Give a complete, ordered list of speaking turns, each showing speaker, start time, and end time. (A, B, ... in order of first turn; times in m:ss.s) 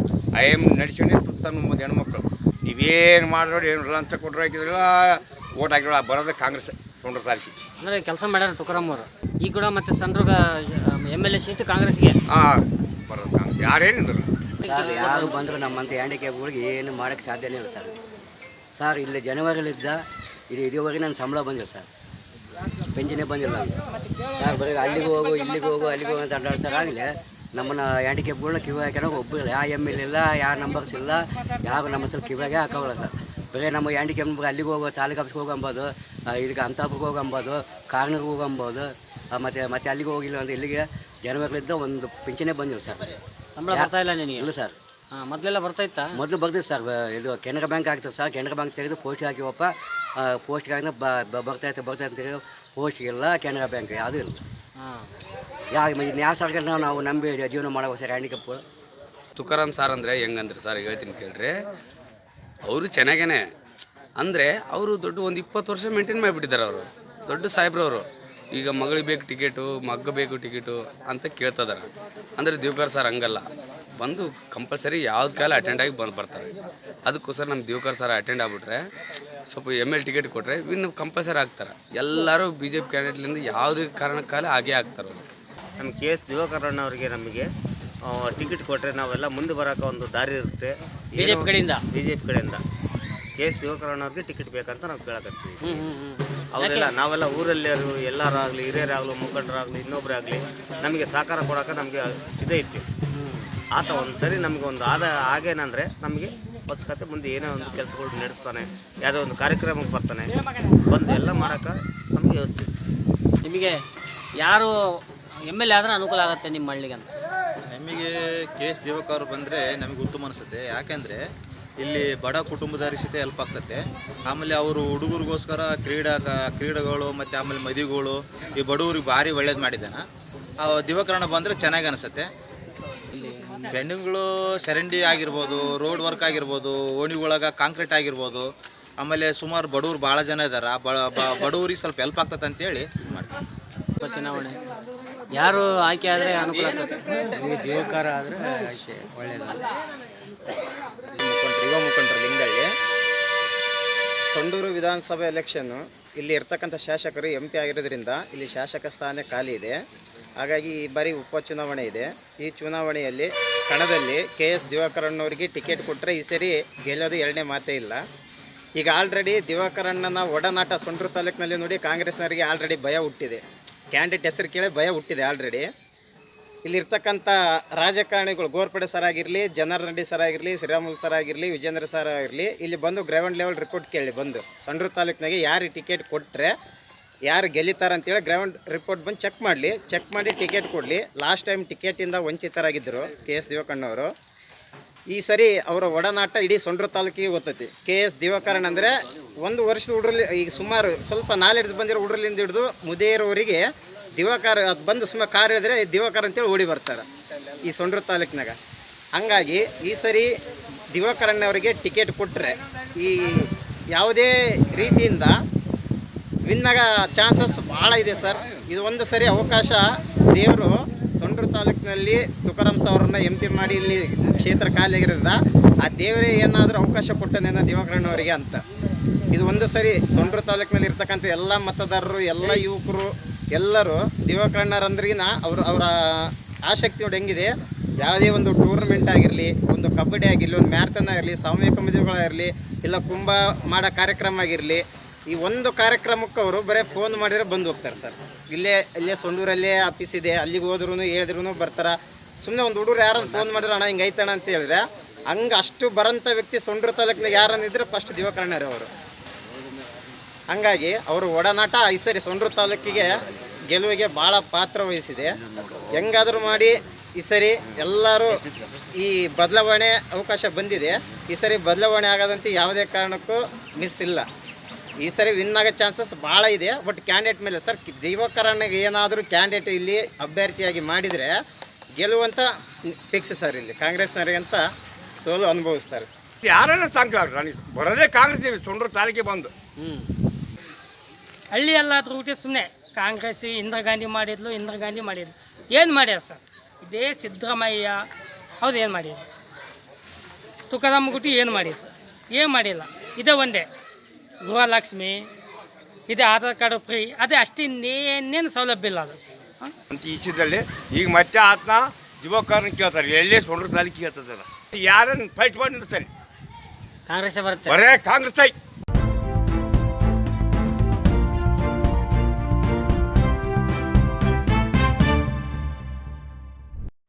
0:00.3-0:07.5 A
0:07.8-0:12.2 B
0:12.3-0:14.3 A
0:14.6-0:15.4 B
0:14.7-0:17.9 C
0:18.8-0:21.9 C
0:22.9-0:23.7 C
0:24.4-0:43.1 C
0:43.5-0:44.5 B
0:43.7-0:44.8 C
0:45.1-0:46.2 B
0:46.2-0:49.7 C
0:50.2-0:54.4 C
0:54.8-0:55.1 B
0:55.8-0:58.6 C
0:59.4-1:01.5 D
1:02.6-1:03.4 D
1:04.2-1:11.8 D
1:12.4-1:13.4 D
1:14.0-1:16.5 D
1:17.0-1:18.8 D
1:19.5-1:25.2 D
1:25.8-1:27.5 E
1:28.0-1:32.6 E
1:31.2-1:31.8 B
1:33.4-1:35.8 E
1:35.6-1:36.9 B
1:36.6-1:42.8 E
1:43.2-1:43.5 B
1:43.7-1:50.3 E
1:50.9-1:52.7 E
1:53.4-1:53.8 B
1:54.4-1:54.8 B
1:55.5-1:57.1 B
1:57.7-2:01.2 F
2:01.8-2:10.0 F
2:10.6-2:12.3 F
2:13.7-2:18.5 F
2:19.0-2:23.3 F
2:24.0-2:24.6 B
2:25.3-2:27.0 B
2:27.4-2:29.6 C
2:31.2-2:32.7 G
2:34.3-2:39.7 G
2:40.4-2:48.0 G
2:48.8-2:53.4 G
2:53.9-2:55.6 G
2:56.6-3:06.5 G
3:07.3-3:14.1 G
3:15.1-3:18.9 G
3:19.4-3:23.6 G
3:24.2-3:27.0 G
3:27.7-3:28.5 G
3:29.2-3:30.3 G
3:30.9-3:35.3 G
3:36.5-3:39.8 G
3:40.3-3:48.6 G
3:49.3-3:57.5 G
3:58.0-4:18.9 G
4:20.5-4:23.1 G
4:23.7-4:25.3 G
4:26.0-4:28.4 G
4:29.0-4:34.2 G
4:35.0-4:41.3 G
4:42.0-4:42.4 G
4:43.1-4:44.6 G
4:45.2-4:46.1 G
4:46.4-4:49.5 A
4:49.8-4:50.1 B
4:51.5-4:58.0 H
4:58.6-4:59.2 H
5:00.7-5:03.6 H
5:04.4-5:05.2 H
5:06.1-5:09.2 H
5:09.9-5:16.1 A
5:17.1-5:17.8 B
5:17.7-5:18.5 A